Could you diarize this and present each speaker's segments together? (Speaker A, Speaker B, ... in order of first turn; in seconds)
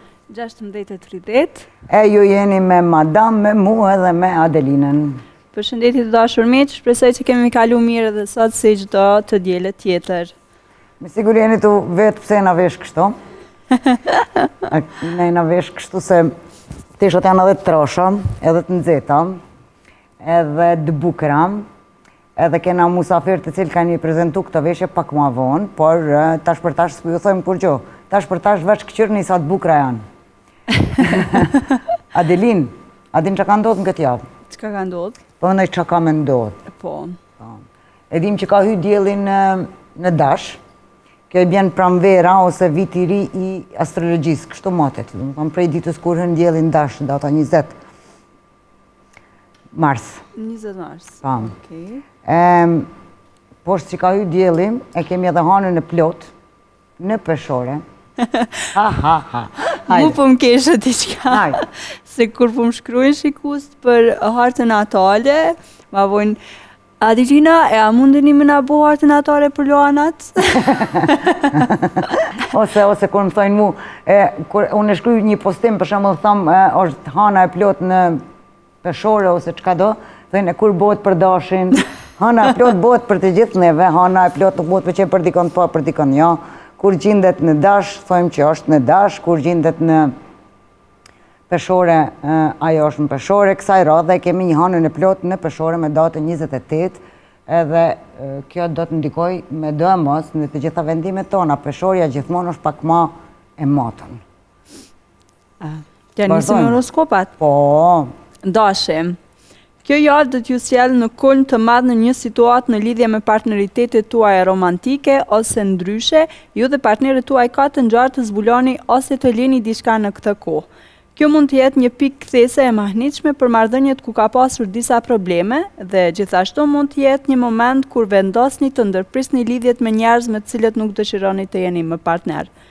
Speaker A: 0.3-1.7, 5.5-10.3, 34.5-35.2, 36.7-37.2, 50.4-52.0, 59.8-66.4, 67.0-71.7, 105.6-107.3, 108.4-109.2, 109.8-132.5
Speaker B: 1.9-5.2, 11.0-13.2, 14.7-16.3, 17.0-19.4, 20.2-21.7, 22.4-30.0, 31.0-31.6, 32.1-34.2, 35.4-36.6, 38.1-40.6, 41.3-47.8, 49.7-50.2, 51.2-51.5, 52.2-52.9, 53.6-56.3, 57.0-57.8, 58.8-60.2, 61.3-61.6, 70.8-71.9, 72.5-78.2, 78.8-90.1, 91.5-104.2, 106.3-106.8, 107.4-108.1